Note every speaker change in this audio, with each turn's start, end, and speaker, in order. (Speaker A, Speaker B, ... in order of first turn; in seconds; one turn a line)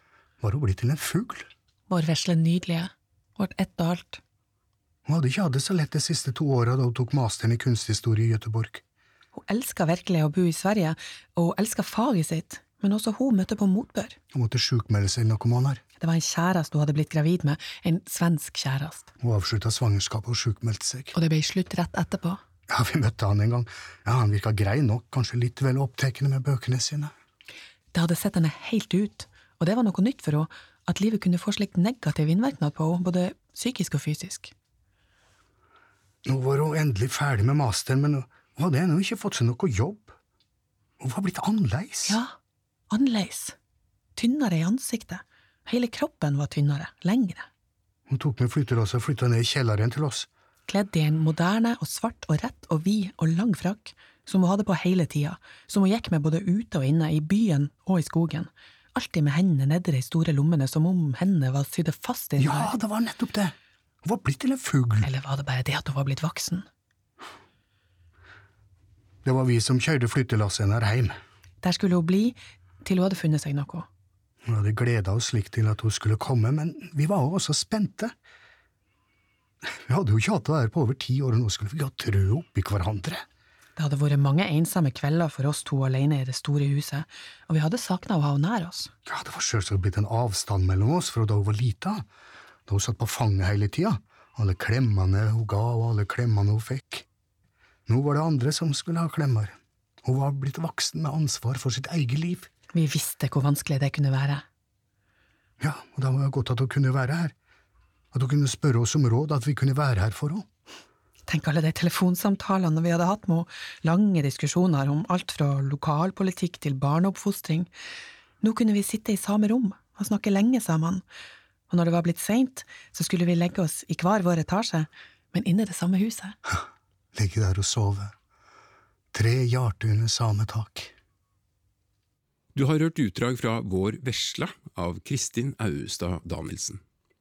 Speaker A: 0.4-1.5
Speaker B: 1.9-4.2
Speaker A: 5.0-8.8
Speaker B: 9.3-14.2
Speaker A: 14.3-15.8
Speaker B: 16.0-19.1
Speaker A: 19.2-21.1
Speaker B: 21.1-22.4
Speaker A: 22.7-27.1
Speaker B: 27.9-34.5
Speaker A: 36.2-40.2
Speaker A: 41.0-42.2
Speaker B: 42.1-42.3
Speaker B: 42.9-43.5
Speaker B: 44.1-47.5
Speaker A: 48.1-50.3
Speaker B: 50.7-62.7
Speaker A: 62.4-65.1
Speaker B: 65.0-66.7
Speaker A: 69.2-71.2
Speaker B: 71.6-73.9
Speaker A: 74.4-78.1
Speaker A: 79.9-83.2
Speaker B: 83.8-88.9
Speaker A: 89.1-92.0
Speaker A: 92.7-97.0
Speaker A: 97.9-102.5
Speaker B: 102.7-104.4
Speaker A: 105.6-107.3
Speaker A: 108.1-110.5
Speaker B: 111.3-117.7
Speaker B: 118.4-121.0
Speaker B: 121.7-126.3
Speaker A: 127.1-128.1
Speaker A: 129.1-130.9
Speaker C: 132.5-136.8